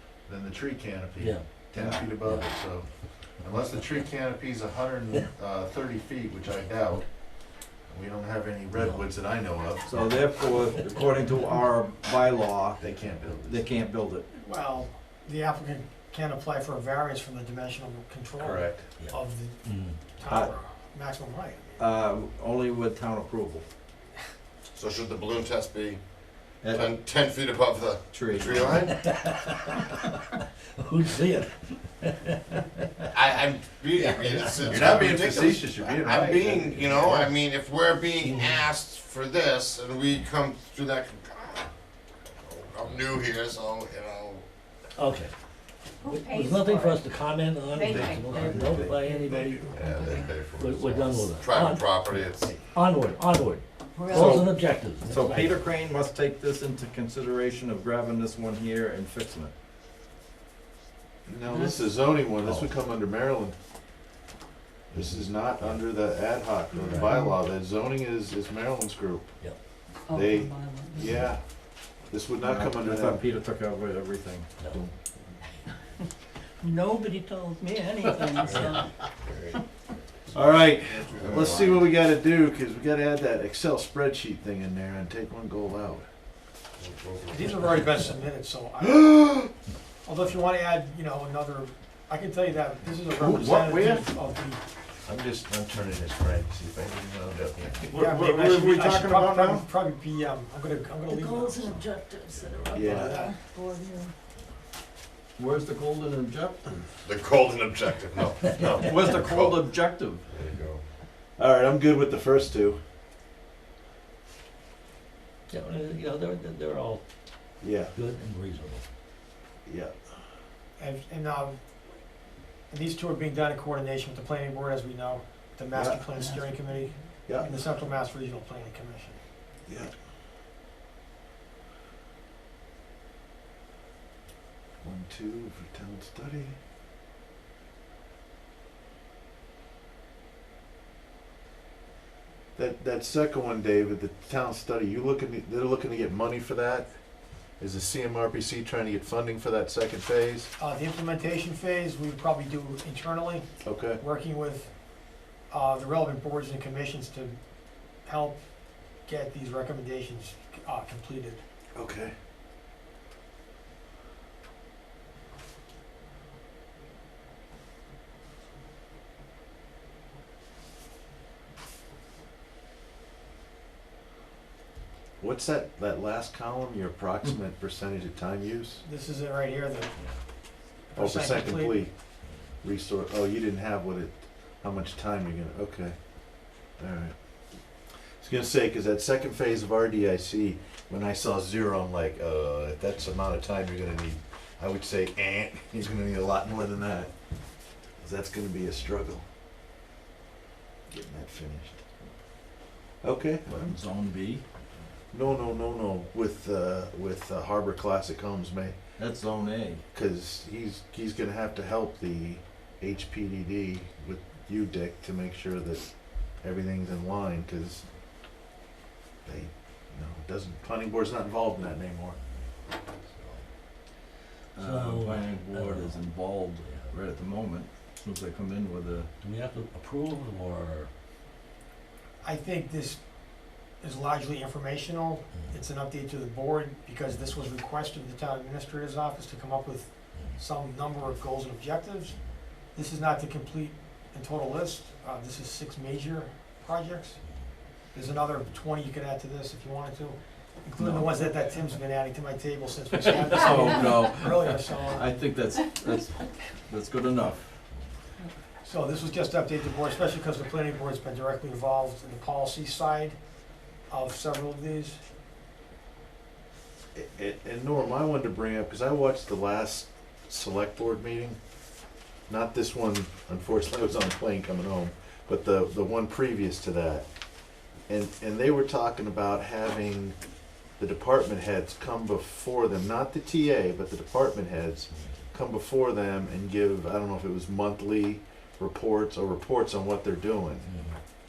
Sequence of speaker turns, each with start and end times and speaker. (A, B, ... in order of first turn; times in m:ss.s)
0:00.2-0:10.0 A
0:01.2-0:01.6 B
0:01.8-0:02.1 C
0:02.2-0:02.5 B
0:08.8-0:09.1 B
0:09.9-0:12.8 C
0:12.8-0:13.6 A
0:13.4-0:14.2 C
0:14.4-0:22.0 D
0:18.4-0:18.8 A
0:19.0-0:20.0 B
0:20.2-0:20.5 C
0:21.8-0:23.6 C
0:24.8-0:26.0 E
0:26.6-0:27.0 C
0:26.7-0:28.9 E
0:28.1-0:28.9 C
0:28.9-0:29.9 B
0:30.8-0:32.8 B
0:33.1-0:41.7 E
0:34.0-0:34.9 B
0:34.7-0:37.3 A
0:38.2-0:38.6 B
0:42.3-0:44.5 E
0:45.0-0:45.3 B
0:46.0-0:47.0 F
0:46.0-0:49.5 B
0:47.7-0:50.4 F
0:47.9-0:50.2 A
0:49.7-0:52.6 E
0:50.4-0:52.1 B
0:52.6-0:55.6 B
0:54.0-0:54.4 F
0:54.1-0:54.5 C
0:55.1-0:59.5 C
1:01.3-1:03.6 A
1:01.5-1:01.9 F
1:02.4-1:02.7 C
1:04.9-1:09.3 A
1:05.0-1:05.7 C
1:06.7-1:07.4 F
1:10.1-1:11.3 F
1:10.1-1:11.4 A
1:12.0-1:13.2 A
1:12.4-1:14.5 C
1:14.7-1:15.4 A
1:16.6-1:18.9 F
1:18.4-1:19.6 E
1:20.3-1:21.9 E
1:20.3-1:26.1 A
1:26.8-1:27.7 E
1:27.3-1:29.3 D
1:28.8-1:29.5 A
1:30.0-1:34.6 D
1:33.1-1:34.1 A
1:35.0-1:37.9 A
1:37.8-1:39.7 C
1:37.9-1:41.8 D
1:41.1-1:44.1 F
1:42.7-1:43.3 A
1:42.8-1:43.4 D
1:45.4-1:46.9 C
1:47.0-1:50.8 E
1:48.8-1:50.2 C
1:51.4-1:52.8 A
1:55.5-1:57.0 B
1:57.6-1:57.9 A
1:57.7-1:58.8 B
1:59.7-1:59.9 A
2:00.8-2:01.6 D
2:02.7-2:09.2 D
2:05.7-2:06.0 A
2:06.1-2:07.5 F
2:09.7-2:09.9 A
2:14.8-2:16.6 A
2:22.6-2:26.9 A
2:27.6-2:30.5 A
2:30.6-2:37.4 D
2:33.6-2:34.0 A
2:38.0-2:38.4 D
2:39.0-2:41.4 D
2:41.8-2:42.1 A
2:55.2-2:58.8 A
2:58.8-2:59.9 D
3:00.9-3:01.8 D
3:01.0-3:01.9 A
3:02.6-3:06.0 A
3:06.8-3:07.2 A
3:08.2-3:17.1 A
3:18.0-3:19.2 A
3:20.9-3:21.8 A
3:23.0-3:23.7 A
3:23.5-3:24.4 C
3:25.1-3:28.8 A
3:29.0-3:29.8 C
3:29.9-3:37.8 A
3:39.2-3:42.2 A
3:43.0-3:43.4 B
3:44.6-3:49.1 C
3:44.6-3:46.0 B
3:46.6-3:46.9 B
3:49.2-3:50.9 B
3:52.2-4:02.2 D
4:00.1-4:00.4 B
4:02.7-4:07.2 D
4:07.9-4:15.2 D
4:10.8-4:11.3 C
4:13.1-4:17.4 C
4:18.6-4:23.2 D
4:23.9-4:25.0 D
4:27.0-4:31.4 A
4:32.3-4:37.1 A
4:37.9-4:40.2 A
4:40.8-4:50.7 A
4:50.7-4:51.0 B